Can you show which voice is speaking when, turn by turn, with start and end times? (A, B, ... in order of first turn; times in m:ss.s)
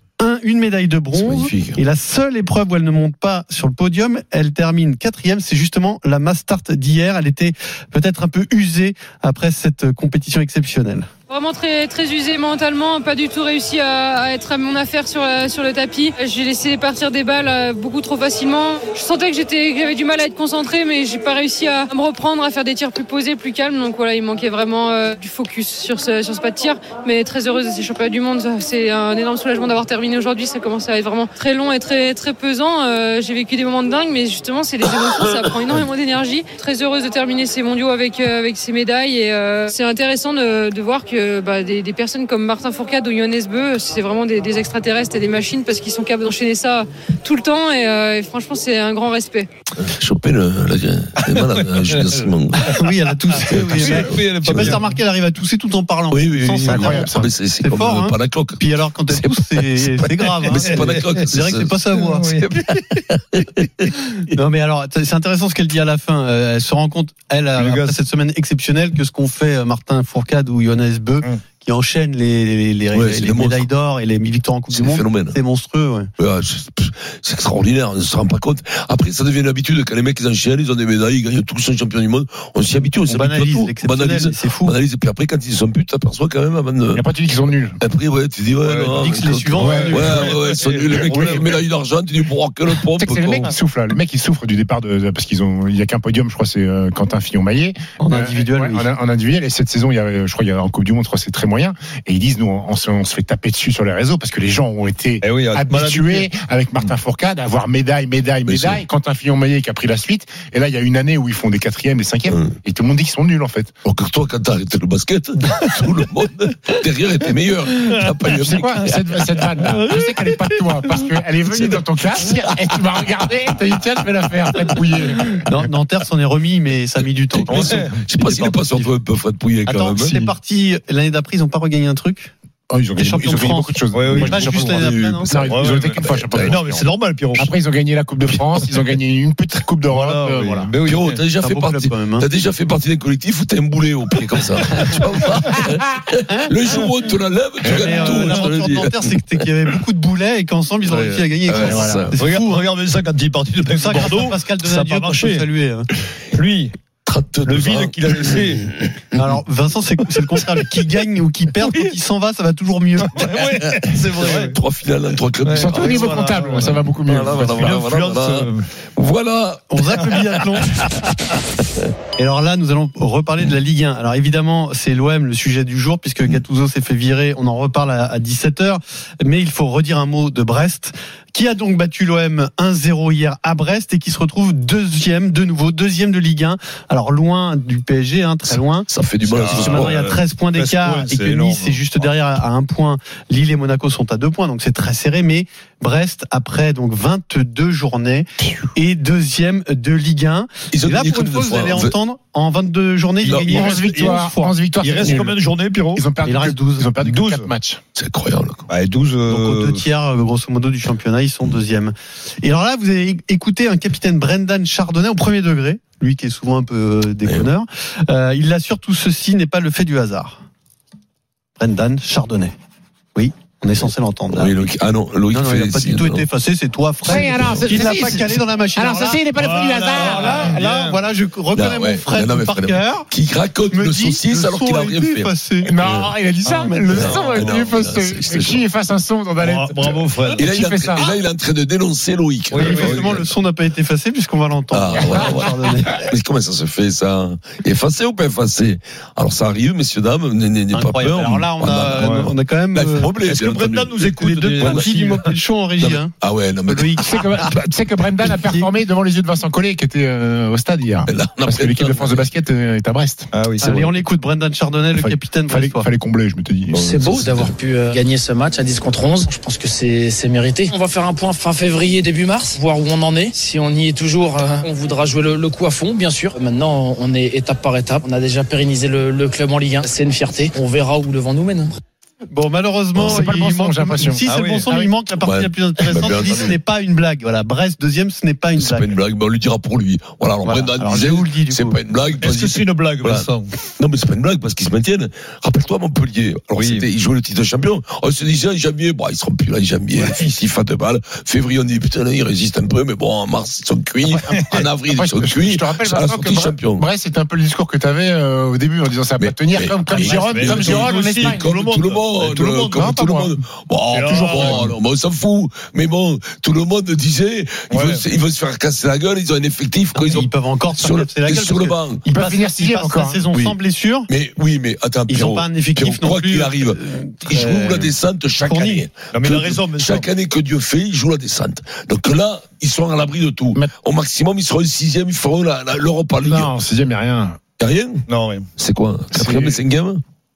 0:00.2-0:11.1 A
0:01.2-0:01.8 B
0:11.3-0:49.5 C
0:49.8-0:52.7 B
0:51.8-0:52.3 D
0:52.6-1:02.3 A
0:53.3-0:55.0 D
0:53.5-0:54.8 B
0:56.1-1:01.8 B
0:56.6-0:57.3 E
1:00.4-1:01.3 D
1:01.9-1:03.0 D
1:03.1-1:04.3 B
1:04.3-1:16.1 A
1:07.6-1:08.0 D
1:12.9-1:13.7 B
1:14.7-1:15.4 B
1:16.2-1:27.0 B
1:23.1-1:24.8 A
1:26.9-1:27.8 E
1:27.8-1:33.5 B
1:28.6-1:31.6 D
1:29.0-1:30.3 A
1:29.6-1:30.2 E
1:30.9-1:31.4 E
1:33.0-1:53.7 E
1:38.0-1:38.9 A
1:45.2-1:46.9 D
1:48.5-1:48.8 B
1:53.8-1:59.6 B
1:57.8-1:58.1 D
1:58.4-2:05.3 E
1:59.4-2:01.8 D
2:05.4-2:09.0 A
2:07.3-2:10.2 B
2:07.5-2:08.0 D
2:09.6-2:12.3 A
2:12.7-2:20.7 E
2:13.0-2:15.3 A
2:13.9-2:14.7 D
2:14.8-2:16.6 B
2:15.3-2:17.5 D
2:19.9-2:21.2 D
2:20.9-2:29.4 B
2:21.4-2:22.3 A
2:26.6-2:26.9 D
2:27.6-2:32.6 A
2:27.7-2:28.6 D
2:30.9-2:31.3 D
2:31.5-2:32.2 B
2:31.5-2:32.2 E
2:32.1-2:35.5 D
2:33.8-2:35.9 A
2:36.3-2:36.7 D
2:37.1-2:39.3 B
2:37.4-2:38.7 D
2:39.2-2:43.3 A
2:41.6-2:41.9 D
2:43.0-2:44.6 D
2:43.5-2:46.1 B
2:44.2-2:44.4 A
2:45.4-2:46.9 D
2:45.5-2:47.9 E
2:47.1-2:50.6 B
2:47.5-2:48.7 D
2:49.7-2:50.7 A
2:52.2-3:08.9 A
3:08.9-3:10.0 B
3:09.2-3:12.1 D
3:09.4-3:24.6 A
3:20.7-3:22.0 B
3:23.2-3:23.7 B
3:23.5-3:25.4 E
3:23.7-3:24.2 D
3:24.8-3:26.1 D
3:25.9-3:27.8 E
3:26.2-3:26.9 A
3:27.0-3:27.5 D
3:28.0-3:28.7 B
3:28.7-3:29.9 D
3:29.3-3:40.4 A
3:37.2-3:37.5 B
3:41.6-3:42.5 A
3:43.2-3:44.7 A
3:43.8-3:46.3 B
3:45.3-3:49.2 A
3:47.0-3:50.5 E
3:47.2-3:47.6 B
3:49.3-3:51.0 D
3:49.9-3:53.1 A
3:51.5-3:56.1 B
3:53.7-3:55.7 A
3:55.6-4:01.2 E
3:56.4-3:57.4 D
3:56.7-3:57.0 A
3:56.9-3:58.6 B
3:59.4-4:00.5 D
4:00.4-4:03.2 B
4:02.5-4:03.3 D
4:02.6-4:06.0 A
4:04.7-4:14.9 B
4:10.7-4:13.1 A
4:11.9-4:12.3 D
4:13.0-4:15.4 D
4:14.2-4:16.1 A
4:15.8-4:17.4 B
4:16.7-4:17.5 A
4:17.0-4:23.3 E
4:18.2-4:18.7 A
4:21.1-4:22.3 B
4:23.3-4:23.8 D
4:23.6-4:25.9 A
4:23.6-4:23.9 B
4:24.9-4:26.9 E
4:26.7-4:27.6 B
4:26.7-4:41.8 F
4:42.3-4:48.9 A
4:43.0-4:43.2 B
4:43.0-4:45.0 E
4:44.3-4:44.7 D
4:45.2-4:46.6 B
4:48.6-5:06.9 B
4:50.4-4:51.8 A
4:52.2-4:53.6 D
4:56.6-4:56.9 D
5:00.0-5:00.4 D
5:04.0-5:11.5 E
5:09.2-5:22.0 B
5:09.9-5:13.0 D
5:12.7-5:13.3 E
5:13.9-5:14.7 D
5:13.9-5:14.8 E
5:17.7-5:18.0 D
5:20.0-5:24.1 A
5:22.0-5:23.2 E
5:24.1-5:36.5 B
5:25.1-5:28.9 A
5:29.1-5:30.1 D
5:36.2-5:37.4 E
5:37.6-5:38.0 B
5:38.1-5:38.5 D
5:38.6-5:40.0 B
5:39.2-5:39.6 D